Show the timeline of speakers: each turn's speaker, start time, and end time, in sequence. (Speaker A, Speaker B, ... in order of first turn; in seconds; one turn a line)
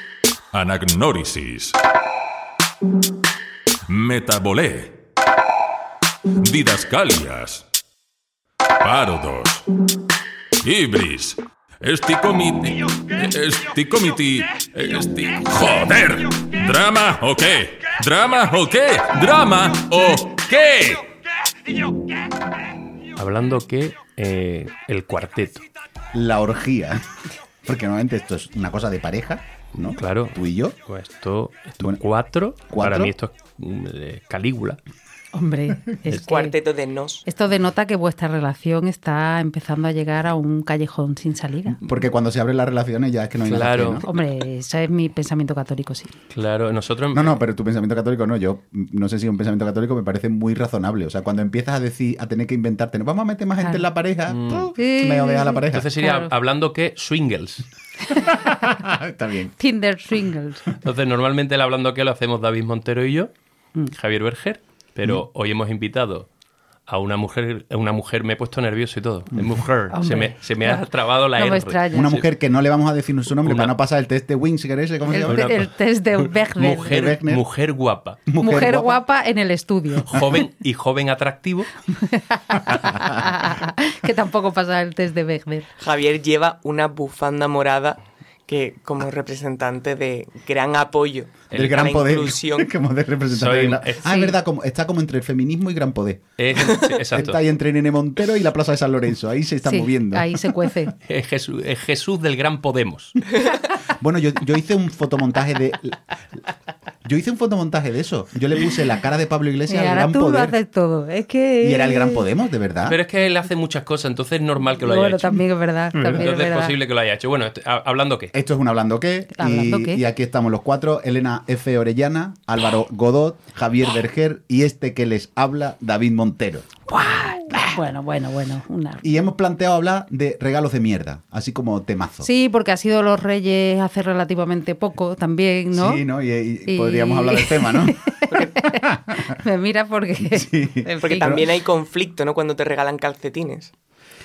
Speaker A: 0.5-1.8
Speaker A: 3.9-5.0
Speaker A: 6.4-7.7
Speaker A: 8.8-9.7
Speaker A: 10.6-21.1
Speaker B: 23.1-25.6
Speaker C: 26.1-27.0
Speaker C: 27.6-30.8
Speaker B: 29.9-34.8
Speaker C: 32.7-33.1
Speaker D: 35.3-36.5
Speaker E: 36.2-37.2
Speaker D: 37.2-41.8
Speaker C: 41.7-44.1
Speaker B: 43.5-44.0
Speaker D: 44.0-46.1
Speaker B: 46.3-47.4
Speaker C: 47.1-55.9
Speaker D: 53.6-53.9
Speaker B: 54.3-54.7
Speaker D: 54.7-56.3
Speaker B: 55.7-57.6
Speaker C: 58.3-59.5
Speaker D: 59.6-60.6
Speaker B: 60.8-63.3
Speaker B: 63.9-66.3
Speaker B: 66.9-72.2
Speaker C: 69.3-69.6
Speaker D: 69.9-72.1
Speaker C: 71.9-75.5
Speaker B: 73.4-73.7
Speaker D: 75.0-76.9
Speaker B: 75.3-78.2
Speaker C: 76.8-77.4
Speaker C: 78.2-79.0
Speaker D: 78.4-80.3
Speaker B: 80.1-81.7
Speaker D: 82.1-85.7
Speaker E: 85.8-92.7
Speaker B: 91.5-91.9
Speaker C: 91.5-100.9
Speaker B: 93.3-94.3
Speaker B: 96.4-97.4
Speaker D: 99.6-100.9
Speaker B: 101.0-103.2
Speaker C: 103.8-106.4
Speaker C: 107.0-110.6
Speaker D: 109.7-112.2
Speaker C: 111.6-113.0
Speaker B: 112.8-115.4
Speaker D: 114.8-116.7
Speaker B: 115.9-118.3
Speaker C: 118.3-126.7
Speaker D: 119.3-120.0
Speaker D: 126.9-129.0
Speaker C: 127.5-127.8
Speaker C: 129.0-132.3
Speaker D: 132.2-136.0
Speaker C: 135.7-138.1
Speaker D: 136.7-141.4
Speaker E: 138.3-138.6
Speaker C: 138.7-139.4
Speaker C: 140.2-141.5
Speaker E: 141.0-143.7